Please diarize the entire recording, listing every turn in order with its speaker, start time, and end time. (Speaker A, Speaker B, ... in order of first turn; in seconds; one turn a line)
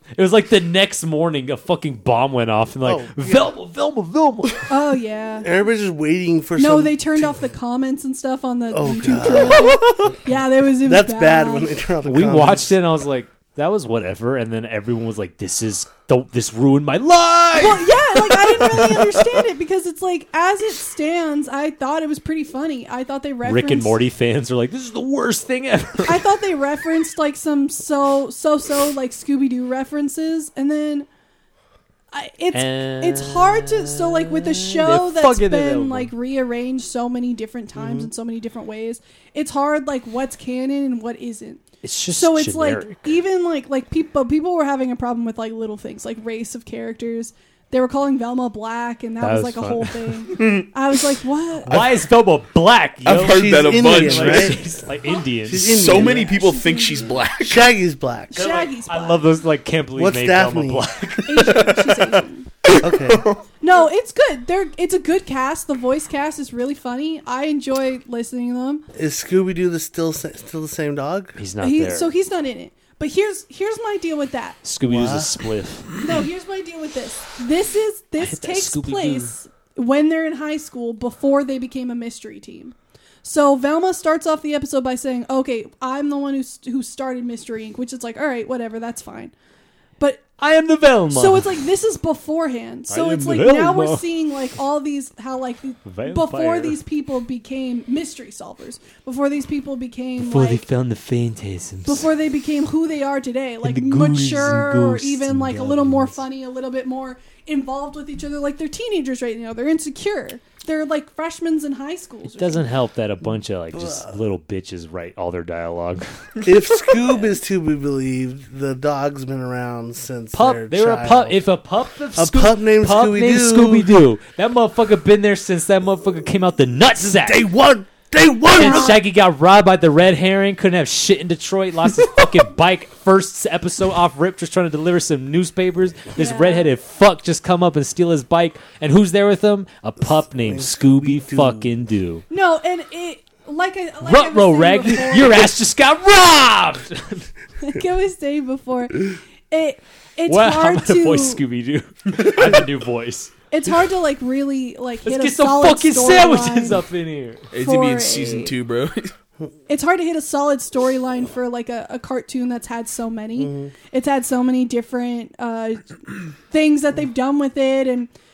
Speaker A: 0.1-4.7
Speaker B: 2.8-3.5
Speaker C: 4.7-5.5
Speaker B: 5.4-7.3
Speaker C: 6.6-11.7
Speaker B: 8.7-10.1
Speaker D: 9.5-10.0
Speaker B: 10.8-12.7
Speaker A: 12.0-17.9
Speaker C: 17.6-24.0
Speaker D: 18.5-19.4
Speaker A: 23.4-26.2
Speaker C: 26.0-31.1
Speaker C: 32.1-51.8
Speaker A: 32.5-36.1
Speaker B: 37.7-38.1
Speaker A: 41.8-43.1
Speaker A: 49.2-50.2
Speaker D: 50.3-50.7
Speaker A: 51.6-56.0
Speaker D: 53.0-54.6
Speaker B: 53.1-54.6
Speaker B: 55.5-56.5
Speaker D: 55.5-57.7
Speaker C: 56.0-57.2
Speaker B: 57.4-58.4
Speaker C: 58.3-59.2
Speaker A: 58.4-61.7
Speaker B: 60.0-60.8
Speaker C: 61.2-62.5
Speaker D: 61.5-61.8
Speaker D: 62.7-63.4
Speaker B: 62.8-63.3
Speaker C: 63.6-68.8
Speaker B: 68.9-71.3
Speaker A: 71.4-72.1
Speaker C: 71.6-74.6
Speaker A: 74.6-75.9
Speaker B: 74.9-75.3
Speaker C: 76.0-89.3
Speaker A: 78.2-79.3
Speaker A: 90.4-91.7
Speaker C: 91.1-100.7
Speaker A: 92.9-94.0
Speaker A: 95.8-96.8
Speaker A: 100.2-102.1
Speaker C: 101.9-112.7
Speaker A: 103.6-106.2
Speaker A: 112.3-116.0
Speaker B: 113.7-114.1
Speaker B: 116.4-121.4
Speaker A: 120.3-127.4
Speaker B: 122.2-123.9
Speaker B: 127.2-129.0
Speaker A: 128.6-142.2
Speaker C: 128.6-129.0
Speaker C: 136.2-136.7
Speaker B: 140.4-141.7
Speaker C: 142.3-145.5
Speaker A: 144.0-147.3
Speaker C: 147.6-151.4
Speaker A: 150.3-153.3
Speaker C: 153.5-156.8
Speaker A: 155.0-157.5
Speaker D: 157.5-159.1
Speaker C: 157.6-158.5
Speaker C: 159.7-168.1
Speaker B: 163.4-163.7